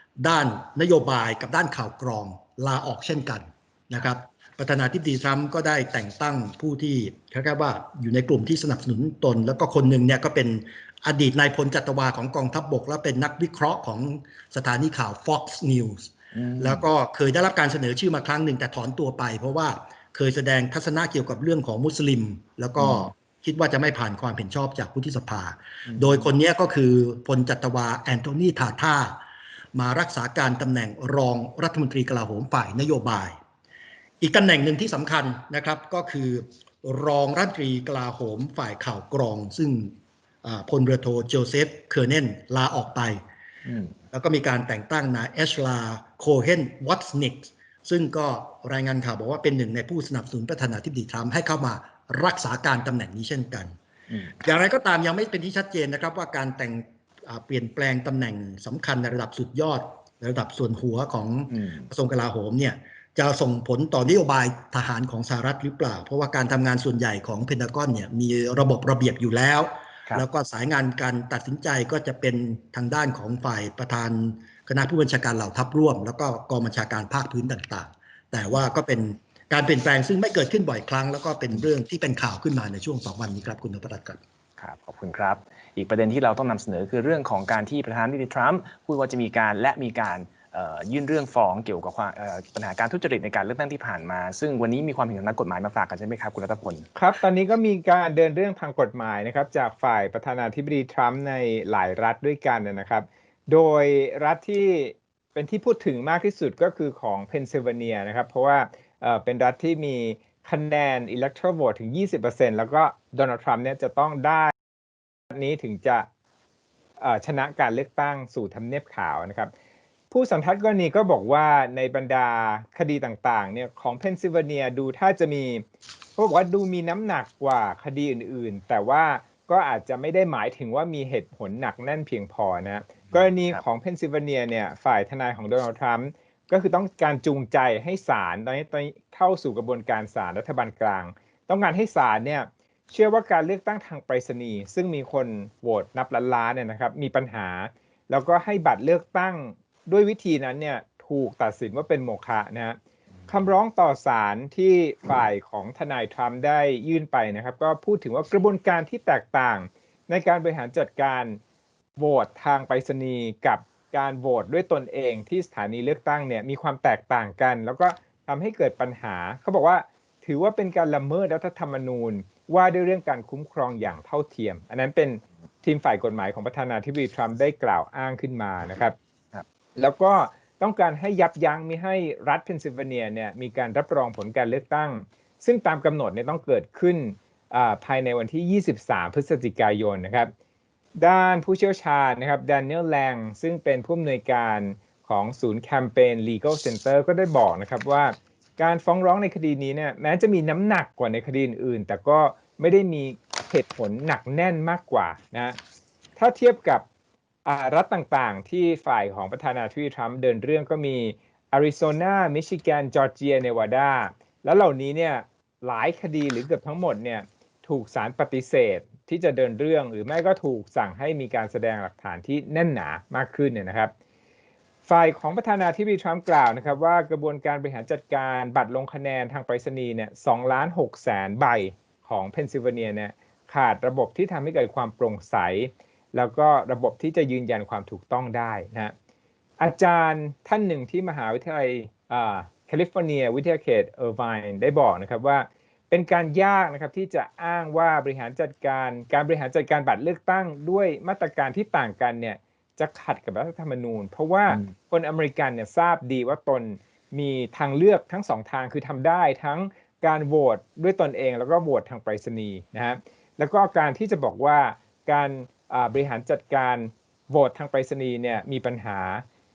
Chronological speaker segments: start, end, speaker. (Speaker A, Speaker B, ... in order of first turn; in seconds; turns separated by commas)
Speaker A: 0.2-29.2, Speaker B: 16.3-16.8, Speaker B: 22.8-23.1, Speaker B: 25.9-26.3, Speaker A: 29.7-33.4, Speaker A: 34.2-43.2, Speaker B: 43.6-43.9, Speaker A: 44.1-53.7, Speaker B: 54.1-54.4, Speaker A: 54.4-84.2, Speaker B: 61.5-61.9, Speaker B: 84.6-96.9, Speaker C: 96.9-114.5, Speaker C: 115.3-116.0, Speaker C: 117.0-119.5, Speaker C: 120.1-125.6, Speaker C: 126.2-152.8, Speaker B: 133.1-133.6, Speaker C: 153.3-161.4, Speaker C: 162.0-178.9, Speaker C: 179.8-190.3, Speaker C: 190.9-205.6, Speaker C: 206.2-206.8, Speaker C: 207.4-223.9, Speaker C: 224.8-238.9, Speaker C: 239.6-269.2